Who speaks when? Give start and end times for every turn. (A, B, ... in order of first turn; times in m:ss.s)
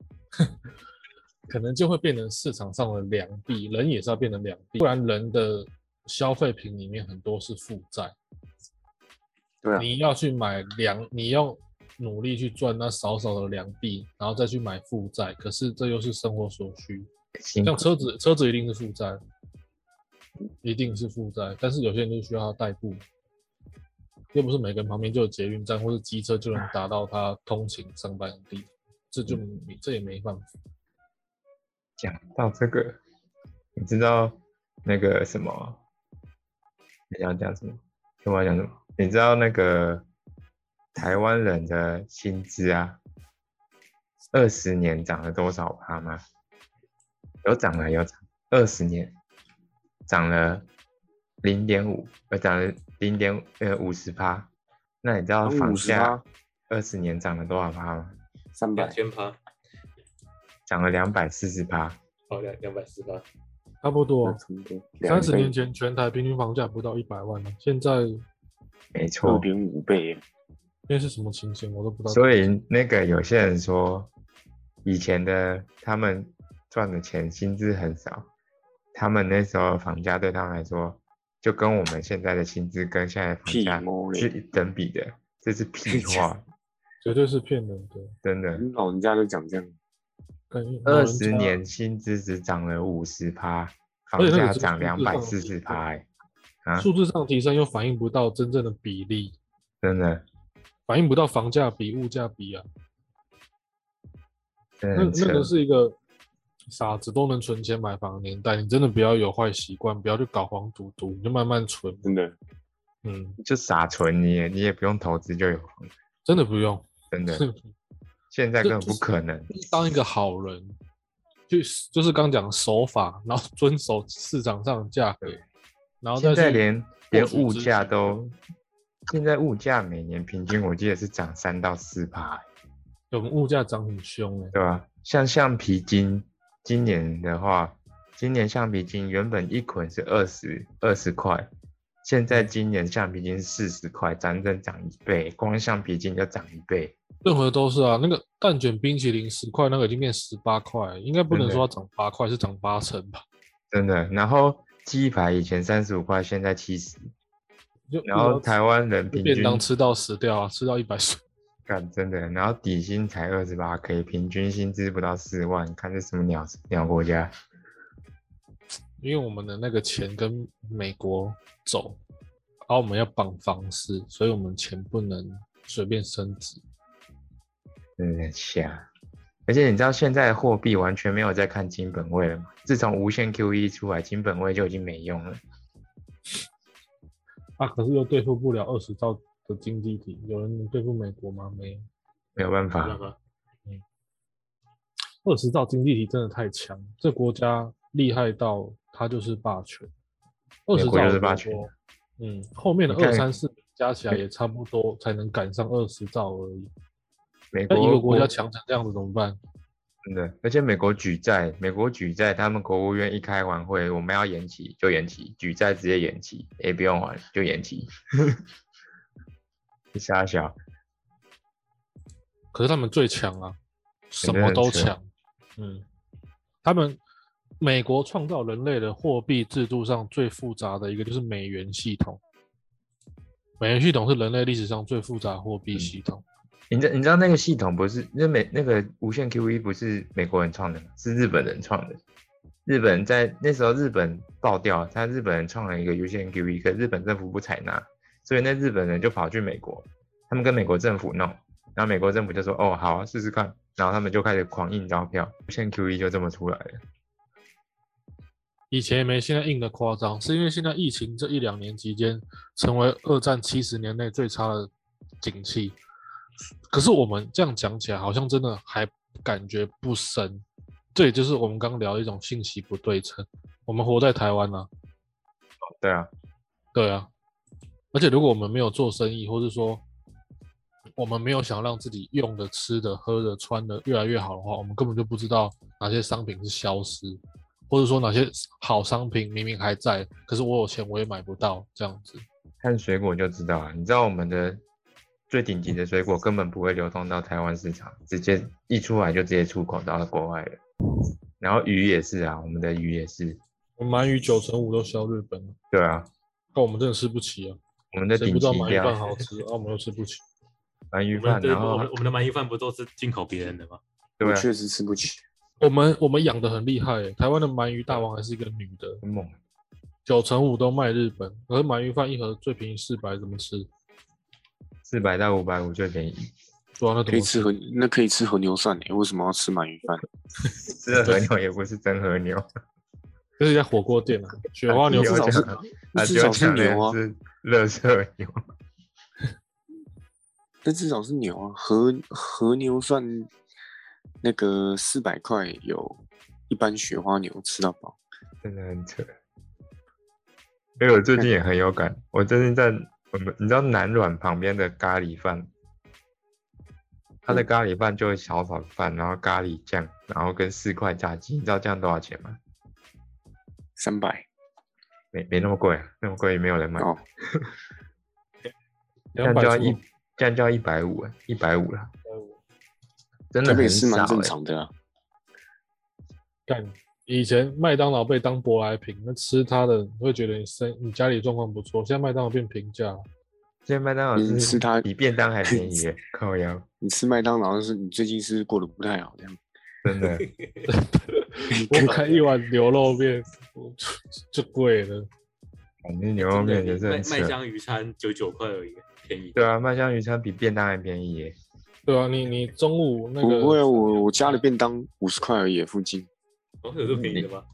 0:01.5-0:08.1 A
0:09.8-0:17.1 A
0:17.4-0:17.9 B
0:17.6-0:19.2 A
0:20.6-0:23.0 A
0:24.3-0:30.5 A
0:32.0-0:33.0 B
0:33.8-0:35.8 B
0:37.1-0:40.0 B
0:40.9-0:43.0 B
0:44.3-0:46.2 B
0:47.4-0:49.2 B
0:50.1-0:50.7 B
0:51.4-0:54.5 B
0:55.0-0:58.2 B
0:55.4-0:56.2 C
0:58.6-0:59.0 C
0:58.7-0:59.4 D
1:00.7-1:02.0 B
1:02.3-1:03.2 D
1:03.8-1:04.4 A
1:04.2-1:05.5 C
1:05.0-1:08.2 A
1:08.9-1:09.5 B
1:09.2-1:10.2 C
1:10.9-1:12.5 A
1:12.1-1:14.1 B
1:14.8-1:18.3 B
1:18.9-1:26.4 B
1:23.4-1:24.3 C
1:25.9-1:26.3 C
1:27.0-1:28.1 A
1:28.2-1:28.6 B
1:28.6-1:29.7 C
1:30.5-1:31.6 A
1:30.8-1:36.0 B
1:34.2-1:35.8 A
1:36.8-1:39.4 A
1:39.8-1:40.2 B
1:40.9-1:42.6 A
1:44.8-1:45.5 B
1:44.9-1:46.0 A
1:46.7-1:52.1 A
1:52.0-1:52.3 C
1:53.0-1:53.4 A
1:53.4-1:55.9 B
1:56.2-1:57.6 A
1:57.1-1:57.4 B
1:58.3-1:59.5 B
1:58.6-2:00.8 A
2:01.5-2:05.4 A
2:06.0-2:08.0 A
2:06.2-2:08.4 B
2:09.1-2:12.4 B
2:13.1-2:14.5 A
2:14.5-2:21.5 B
2:22.0-2:27.0 B
2:27.2-2:33.2 A
2:31.3-2:31.6 B
2:33.7-2:37.1 B
2:37.9-2:38.5 A
2:38.0-2:39.6 B
2:39.1-2:41.2 A
2:41.7-2:47.3 B
2:49.0-2:52.0 A
2:52.7-2:56.6 A
2:58.0-2:58.9 B
2:59.5-3:05.4 B
3:07.6-3:11.8 A
3:12.4-3:13.0 B
3:12.8-3:13.2 D
3:15.2-3:19.9 A
3:20.7-3:26.7 A
3:20.7-3:21.7 B
3:22.9-3:23.3 B
3:27.5-3:28.3 B
3:27.7-3:29.4 A
3:30.0-3:38.4 B
3:39.9-3:40.6 B
3:42.5-3:43.6 A
3:44.1-3:45.0 A
3:44.2-3:45.0 B
3:45.6-3:45.8 A
3:46.6-3:47.0 A
3:47.6-3:52.2 A
3:53.6-3:56.2 A
3:56.7-4:02.0 B
4:02.6-4:16.8 B
4:18.7-4:24.7 A
4:25.2-4:25.8 A
4:26.7-4:30.4 A
4:30.9-4:34.7 A
4:35.8-4:36.1 B
4:36.7-4:37.1 A
4:37.9-4:39.8 A
4:41.0-4:52.2 A
4:52.6-4:54.6 B
4:55.3-5:00.6 B
5:01.4-5:03.4 B
5:03.8-5:05.6 A
5:05.7-5:06.1 B
5:06.5-5:07.6 A
5:07.9-5:09.0 B
5:08.1-5:10.2 A
5:10.9-5:11.9 B
5:11.1-5:13.8 D
5:14.2-5:14.5 B
5:14.2-5:15.2 C
5:15.6-5:19.0 A
5:19.0-5:19.4 B
5:20.0-5:23.7 A
5:24.8-5:26.3 B
5:26.8-5:27.5 A
5:27.1-5:30.0 C
5:30.6-5:32.4 B
5:33.4-5:35.5 A
5:34.7-5:38.4 B
5:34.9-5:37.0 C
5:40.6-5:43.3 C
5:44.2-5:48.0 C
5:48.4-5:49.1 B
5:50.8-5:55.5 B
5:57.2-6:02.4 B
6:03.8-6:04.2 C
6:05.1-6:07.5 B
6:09.1-6:09.8 A
6:09.2-6:11.9 B
6:12.0-6:12.4 A
6:13.3-6:14.3 B
6:13.4-6:14.7 C
6:16.5-6:23.0 A
6:23.6-6:26.6 B
6:24.2-6:24.9 C
6:25.4-6:25.8 C
6:26.8-6:29.4 C
6:29.8-6:30.2 B
6:30.0-6:30.6 D
6:30.7-6:35.1 A
6:31.7-6:32.2 D
6:35.8-6:37.4 B
6:36.2-6:39.5 D
6:39.4-6:41.4 B
6:41.9-6:44.4 A
6:43.2-6:46.1 C
6:46.6-6:47.4 D
6:46.9-6:47.3 B